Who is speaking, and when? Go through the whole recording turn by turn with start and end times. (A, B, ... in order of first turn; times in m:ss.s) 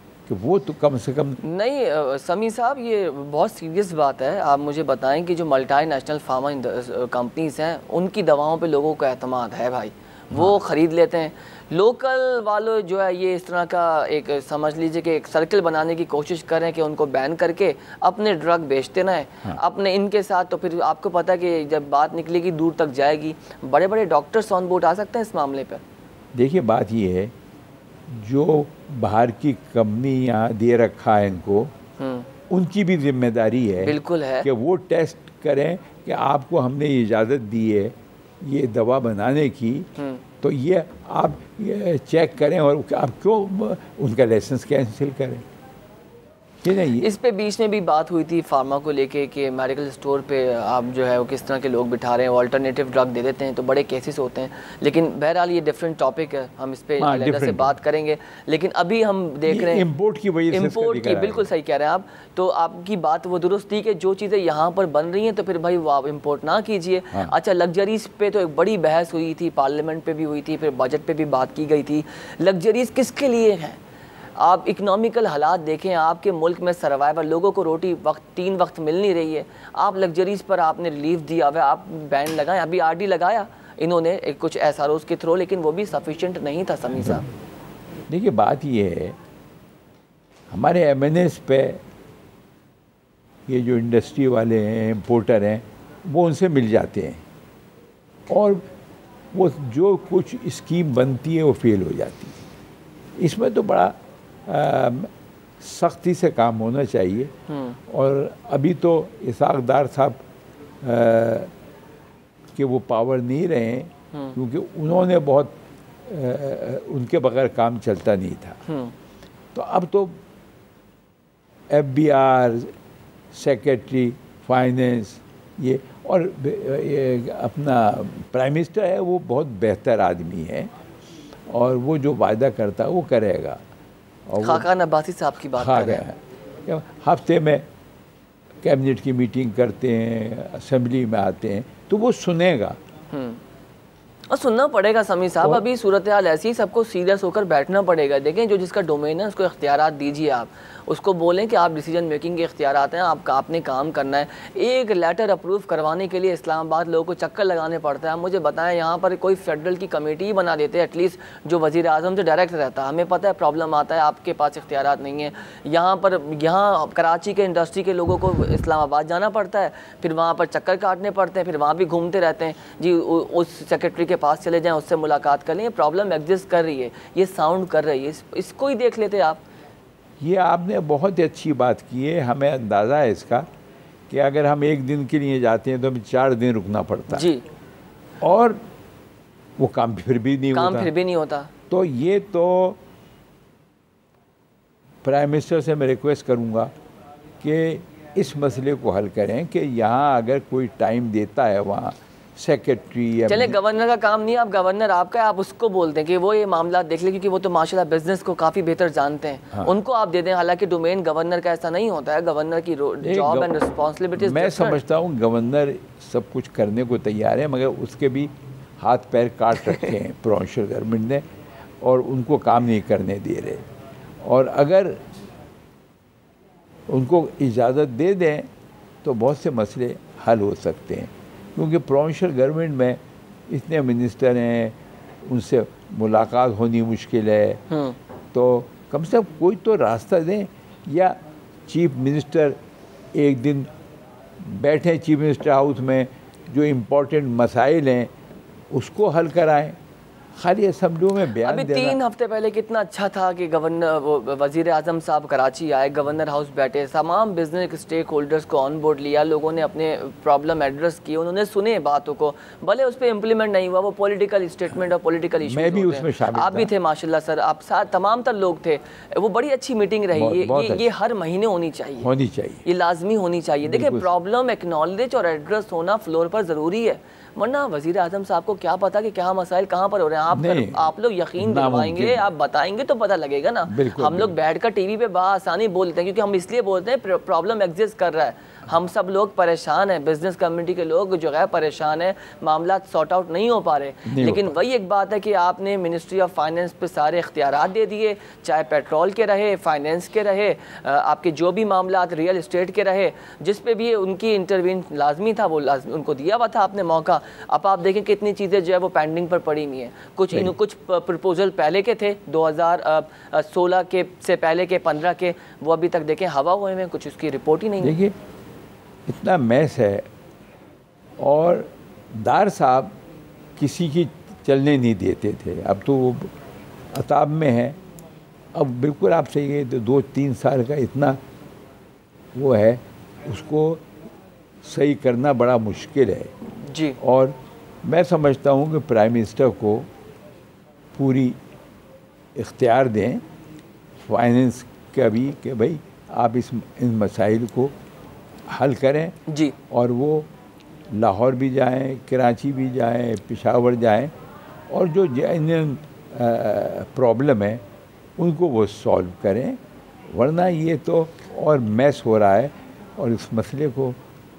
0:00.3-0:01.4 A
0:01.4-0:25.8 B
0:10.3-0:10.6 A
0:26.3-0:27.3 A
0:28.1-0:31.7 A
0:32.0-0:32.3 B
0:32.5-0:39.9 A
0:33.8-0:34.5 B
0:40.0-0:40.2 B
0:40.4-0:45.4 A
0:46.6-0:47.1 A
0:46.9-0:59.8 B
0:57.0-0:57.7 A
0:59.4-1:01.5 A
1:00.5-1:13.8 B
1:07.1-1:07.4 A
1:14.4-1:27.3 B
1:28.1-1:29.2 A
1:30.5-1:31.8 A
1:33.5-1:37.2 A
1:38.3-1:38.6 A
1:39.3-1:42.4 A
1:43.2-1:43.9 A
1:44.4-1:47.3 A
1:47.5-1:47.8 B
1:47.9-1:50.2 A
1:50.8-1:51.5 A
1:52.6-1:55.5 A
1:56.0-1:58.6 A
1:58.6-1:58.9 B
1:59.5-2:00.2 A
2:01.7-2:02.7 A
2:03.3-2:10.7 A
2:11.5-2:13.6 A
2:14.3-2:14.7 A
2:14.4-2:16.0 B
2:15.6-2:17.6 A
2:18.6-2:22.8 A
2:23.1-2:23.4 B
2:24.3-2:59.4 B
3:00.2-3:03.5 A
3:04.1-3:07.3 A
3:07.1-3:07.4 B
3:08.2-3:08.6 A
3:09.6-3:10.9 A
3:10.5-3:11.5 B
3:11.7-3:12.8 A
3:15.0-3:16.7 A
3:17.4-3:23.6 A
3:23.2-3:34.8 B
3:33.0-3:33.5 A
3:34.2-3:41.2 A
3:39.6-3:39.9 B
3:41.8-3:43.6 A
3:44.2-3:45.0 A
3:46.9-3:48.5 A
3:49.0-3:57.6 A
3:57.7-3:58.0 B
3:58.3-4:01.2 A
4:01.7-4:02.6 A
4:03.1-4:03.7 A
4:04.4-4:08.1 A
4:08.7-4:09.8 A
4:10.4-4:12.0 A
4:11.3-4:32.1 B
4:25.4-4:26.7 A
4:30.1-4:30.8 A
4:32.0-4:32.6 A
4:32.6-5:18.0 B
4:33.6-4:34.1 A
4:40.3-4:40.8 A
4:41.4-4:42.2 A
4:43.7-4:44.4 A
4:54.0-4:54.5 A
5:17.8-5:18.1 A
5:19.1-5:20.1 A
5:21.2-5:22.9 A
5:23.6-5:26.3 A
5:26.9-5:27.8 A
5:28.5-5:31.2 A
5:32.3-5:33.8 A
5:34.6-5:36.3 A
5:36.6-5:37.0 B
5:37.0-5:39.9 A
5:41.0-5:41.4 A
5:42.3-5:43.2 A
5:44.0-5:47.7 A
5:48.5-5:49.2 A
5:49.3-5:49.5 B
5:49.7-5:50.3 A
5:50.9-5:54.1 A
5:54.7-5:57.6 A
5:58.2-5:59.6 A
6:00.1-6:04.0 A